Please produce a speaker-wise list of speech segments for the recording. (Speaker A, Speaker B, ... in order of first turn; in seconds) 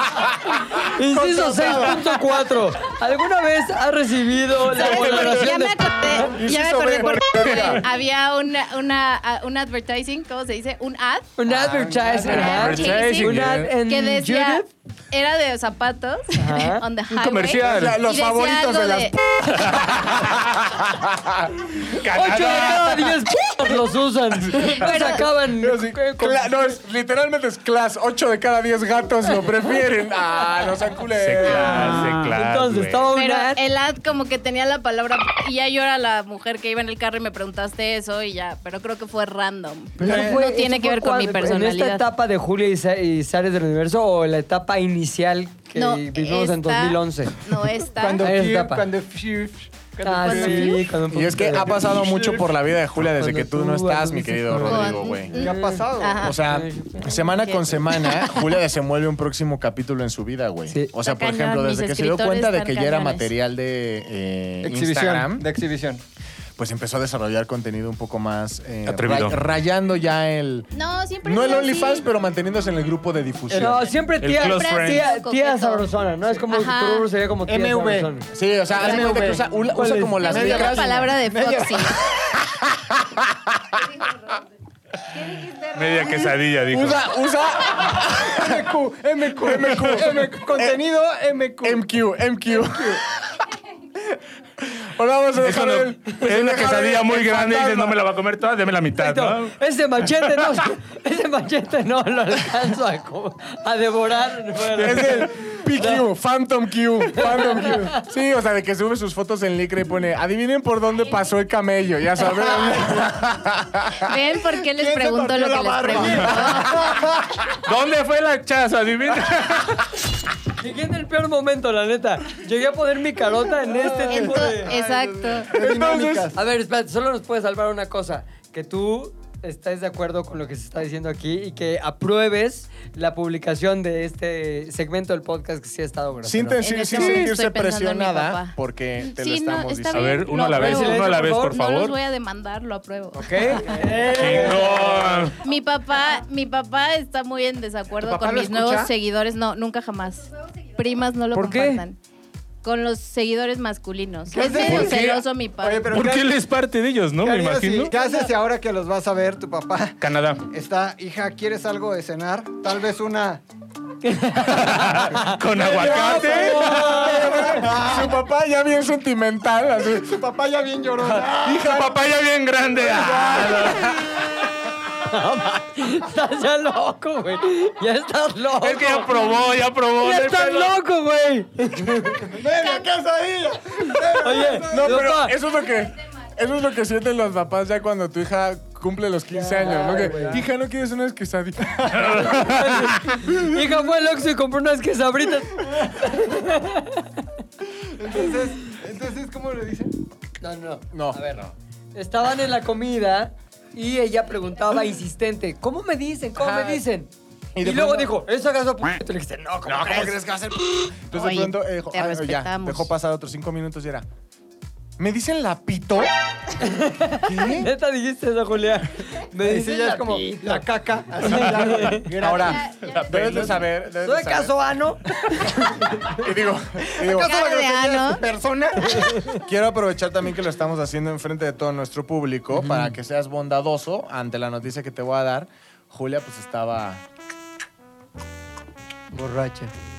Speaker A: 0.8-6.3, 11.4-14.7, 16.4-16.8, 22.0-26.8, 31.8-33.6, 40.0-47.3, 48.2-48.9, 50.0-52.2, 53.0-55.9, 56.4-57.3, 60.7-60.9, 73.5-78.3, 79.7-80.2, 98.9-106.0, 107.3-107.7, 120.6-124.7, 126.3-137.2, 140.5-141.6, 143.1-145.2, 151.3-151.8, 164.0-165.4, 166.0-167.6, 175.0-179.3, 180.0-182.3, 184.1-185.4, 189.3-190.4, 192.3-197.1, 200.4-210.2, 216.6-220.6, 221.2-222.1, 224.0-226.2, 232.5-232.9, 239.1-239.7
Speaker B: 1.1-2.0, 6.3-7.8, 11.7-12.1, 17.6-21.8, 25.6-31.9, 51.1-55.3, 56.2-65.5, 66.6-70.7, 71.2-73.9, 78.3-81.1, 82.2-83.8, 86.7-88.7, 89.3-90.8, 91.6-93.2, 94.6-98.0, 104.7-114.1, 125.5-126.3, 136.2-140.2, 165.6-170.2, 184.7-192.4, 200.9-201.2, 206.3-206.8, 207.5-208.2, 209.6-214.1, 215.0-216.1, 217.2-217.7, 222.2-224.5, 226.1-227.5, 229.4-237.0
Speaker C: 1.3-1.8, 6.8-7.2, 40.0-40.4, 47.9-50.8, 51.7-52.4, 55.3-56.3, 64.6-66.0, 77.5-78.1, 78.7-79.4, 80.2-82.0, 88.1-91.8, 92.5-93.0, 114.7-117.4, 123.7-126.4, 143.7-145.1, 148.0-148.9, 154.3-155.1, 155.6-156.4, 157.2-160.0, 160.5-163.4, 165.5-168.2, 169.9-172.0, 172.8-174.0, 182.3-185.1, 189.6-190.4, 197.8-199.9, 219.4-222.7, 226.8-229.4
Speaker D: 4.7-11.3, 12.2-19.1, 24.7-25.3, 31.5-32.1, 33.1-42.0, 45.7-48.3, 50.2-50.9, 54.7-56.4, 57.4-58.3, 61.0-63.3, 70.7-72.1, 74.4-77.1, 78.8-79.3, 80.2-82.0, 85.2-85.9, 114.0-116.8, 124.0-125.5, 136.6-143.8, 145.4-152.0, 152.6-155.9, 211.1-212.9, 222.4-223.2, 227.2-228.2
Speaker E: 12.2-13.7, 17.1-18.0, 19.6-20.3, 21.9-23.2, 31.1-33.1, 68.8-69.4, 74.2-75.1, 85.7-87.0, 95.4-99.5, 117.6-120.0, 139.9-141.9, 144.1-145.3, 154.5-155.2, 155.9-157.9, 160.0-160.4, 164.5-167.2, 171.3-174.2, 178.6-180.8, 191.9-193.0, 222.8-223.6